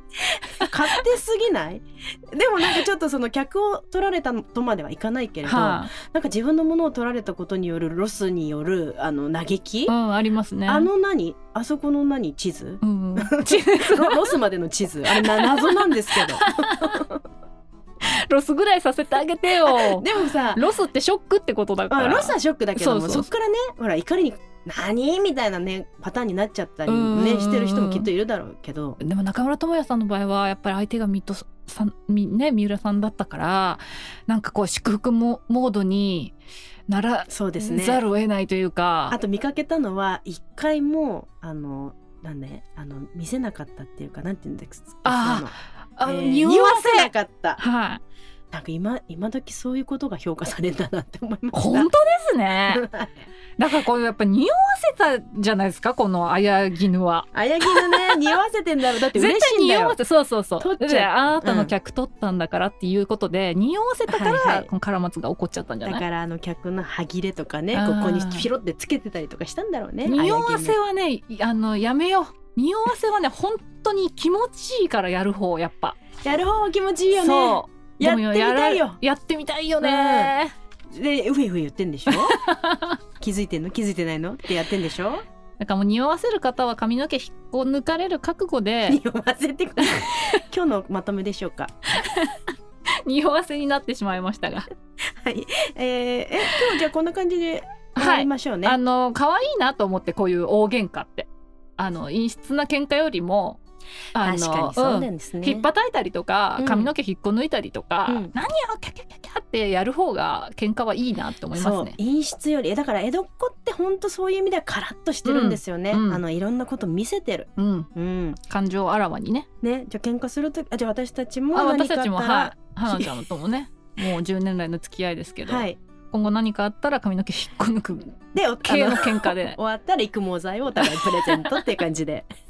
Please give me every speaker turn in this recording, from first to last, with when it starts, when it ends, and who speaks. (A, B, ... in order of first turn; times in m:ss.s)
0:00.6-0:09.9 A
0:00.6-0:01.0 B
0:05.4-0:05.9 B
0:09.9-0:10.9 B
0:10.6-0:17.2 A
0:12.8-0:14.4 B
0:15.1-0:17.0 B
0:18.0-0:23.3 B
0:19.6-0:20.6 A
0:21.9-0:29.0 A
0:26.9-0:28.1 B
0:29.0-0:36.4 B
0:36.9-0:39.2 B
0:37.3-0:38.0 A
0:39.1-0:47.6 A
0:45.0-0:48.0 B
0:48.5-0:51.9 A
0:51.5-0:52.9 B
0:52.7-0:53.2 A
0:53.6-0:58.4 B
0:57.3-1:00.0 A
0:59.1-1:06.0 B
1:00.6-1:01.7 A
1:04.1-1:04.7 A
1:05.8-1:10.8 A
1:07.7-1:08.5 B
1:10.0-1:16.0 B
1:16.2-1:19.0 A
1:17.1-1:20.5 B
1:19.8-1:20.3 A
1:20.9-1:22.4 A
1:22.1-1:23.0 B
1:23.2-1:25.2 A
1:25.6-1:29.0 B
1:28.9-1:31.7 A
1:29.8-1:30.4 B
1:31.9-1:32.5 B
1:33.0-1:34.7 B
1:35.2-1:38.8 A
1:38.0-1:43.6 B
1:44.1-1:52.0 B
1:44.2-1:45.7 A
1:46.6-1:46.9 A
1:48.1-1:48.3 A
1:51.5-1:58.4 A
1:55.2-1:56.2 B
1:57.6-1:59.5 B
1:59.6-2:03.3 A
2:01.5-2:09.6 B
2:05.4-2:05.8 A
2:08.3-2:12.3 A
2:10.8-2:11.6 B